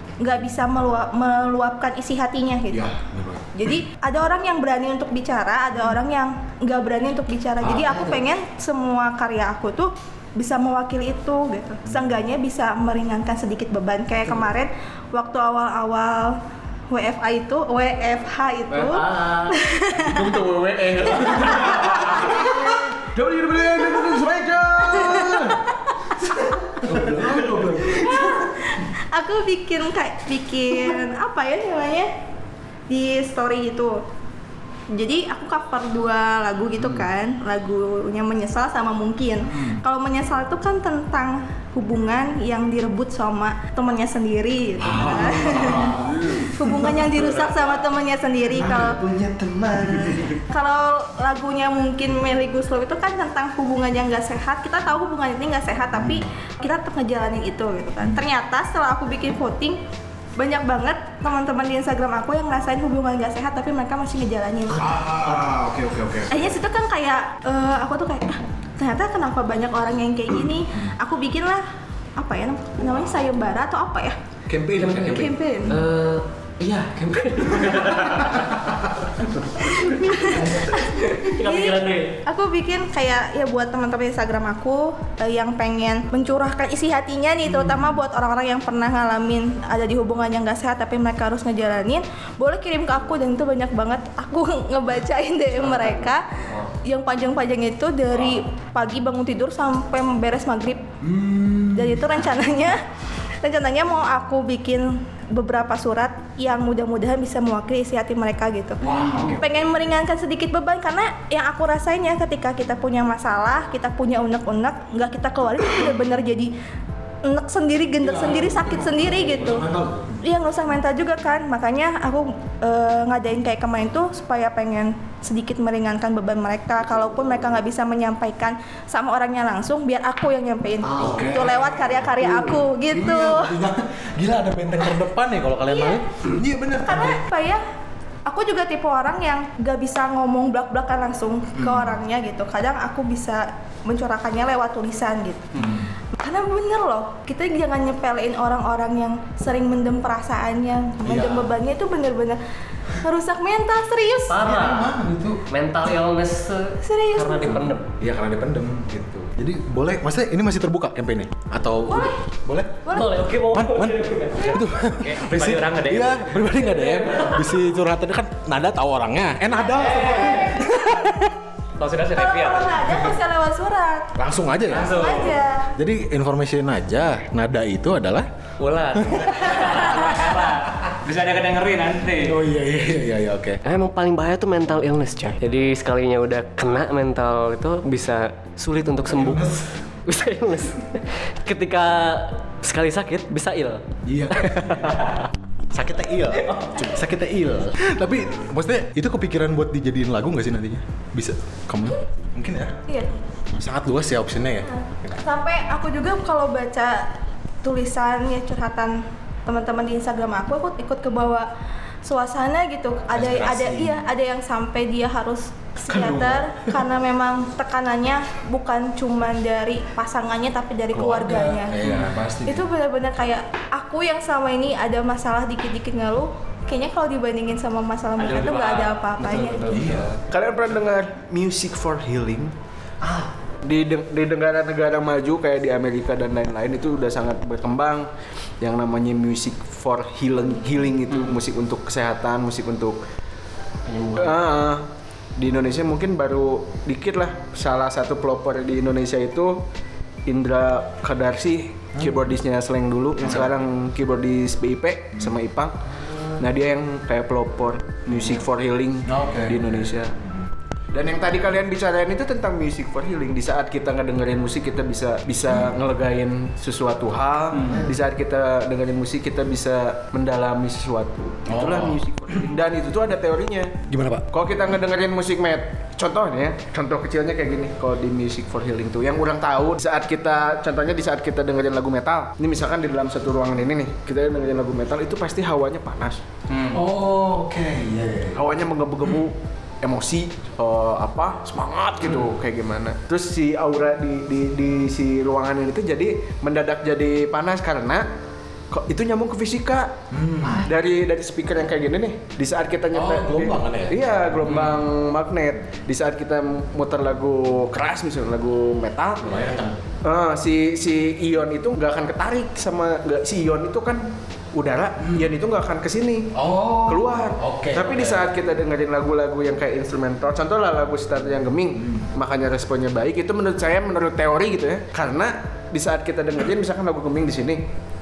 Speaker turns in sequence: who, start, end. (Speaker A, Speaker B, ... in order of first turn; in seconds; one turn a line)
Speaker A: 0.2-3.0
Speaker B: 2.7-3.6
Speaker A: 3.5-16.4
Speaker B: 7.6-8.1
Speaker A: 16.9-20.4
Speaker C: 18.8-19.5
Speaker D: 20.0-25.6
Speaker A: 21.1-22.9
Speaker A: 25.0-26.2
Speaker D: 26.7-28.0
Speaker B: 26.8-28.2
Speaker A: 27.9-32.1
Speaker A: 32.9-34.0
Speaker A: 34.9-45.9
Speaker B: 39.5-39.8
Speaker B: 44.8-46.9
Speaker D: 45.0-47.8
Speaker A: 46.5-49.0
Speaker D: 48.5-50.4
Speaker A: 50.5-59.8
Speaker B: 56.0-56.3
Speaker A: 60.4-64.9
Speaker D: 64.8-66.5
Speaker B: 64.8-65.6
Speaker A: 66.3-71.7
Speaker A: 72.2-74.2
Speaker B: 74.5-75.4
Speaker C: 74.8-78.5
Speaker A: 75.0-75.8
Speaker B: 77.7-79.0
Speaker A: 79.8-100.9
Speaker C: 80.4-82.1
Speaker B: 101.0-102.1
Speaker A: 101.7-102.8
Speaker A: 103.4-116.5
Speaker B: 108.8-109.5
Speaker A: 117.2-119.7
Speaker B: 118.0-120.2
Speaker A: 120.2-133.6
Speaker B: 130.9-137.2
Speaker C: 130.9-131.3
Speaker A: 135.7-136.0
Speaker A: 136.8-137.6
Speaker A: 138.3-145.6
Speaker B: 141.6-141.9
Speaker B: 145.6-145.9
Speaker A: 146.1-152.4
Speaker B: 151.0-151.5
Speaker A: 153.0-154.4
Speaker C: 154.3-154.9
Speaker B: 154.4-155.4
Speaker C: 155.5-157.9
Speaker A: 156.8-157.6
Speaker B: 158.0-171.4
Speaker A: 161.8-162.2
Speaker A: 162.9-163.2
Speaker C: 162.9-167.6
Speaker A: 170.0-170.6
Speaker E: 171.8-172.7
Speaker C: 171.8-172.2
Speaker A: 172.1-174.1
Speaker B: 174.2-175.0
Speaker E: 174.7-175.4
Speaker A: 174.9-175.7
Speaker B: 175.8-178.3
Speaker C: 178.6-180.0
Speaker B: 178.9-179.8
Speaker E: 179.4-182.4
Speaker B: 182.2-183.6
Speaker C: 183.7-189.6
Speaker B: 189.1-189.7
Speaker C: 190.1-195.2
Speaker B: 194.1-202.8
Speaker B: 203.6-205.1
Speaker A: 204.7-207.1
Speaker A: 207.6-211.5
Speaker A: 212.1-221.8
Speaker B: 213.1-214.0
Speaker B: 215.9-216.8
Speaker B: 220.9-222.7
Speaker E: 221.8-222.1
Speaker A: 222.4-229.7
Speaker E: 228.2-230.1
Speaker B: 229.7-230.1
Speaker D: 230.2-232.5
Speaker D: 233.6-238.1
Speaker D: 238.6-243.0
Speaker C: 243.9-244.4
Speaker D: 244.1-249.6
Speaker D: 250.3-255.7
Speaker D: 256.4-260.1
Speaker B: 259.1-260.5
Speaker D: 260.9-273.7
Speaker B: 265.5-265.7
Speaker B: 271.5-272.4
Speaker B: 273.9-274.3
Speaker D: 274.3-286.2
Speaker E: 286.5-286.8
Speaker B: 286.7-288.4
Speaker D: 288.3-298.1
Speaker D: 298.7-299.9
Speaker B: 300.1-300.7
Speaker D: 300.5-309.3
Speaker B: 302.9-304.8
Speaker B: 309.2-309.8
Speaker D: 310.0-316.3
Speaker B: 315.0-315.3
Speaker B: 316.4-318.3
Speaker D: 316.9-327.6
Speaker B: 321.8-322.1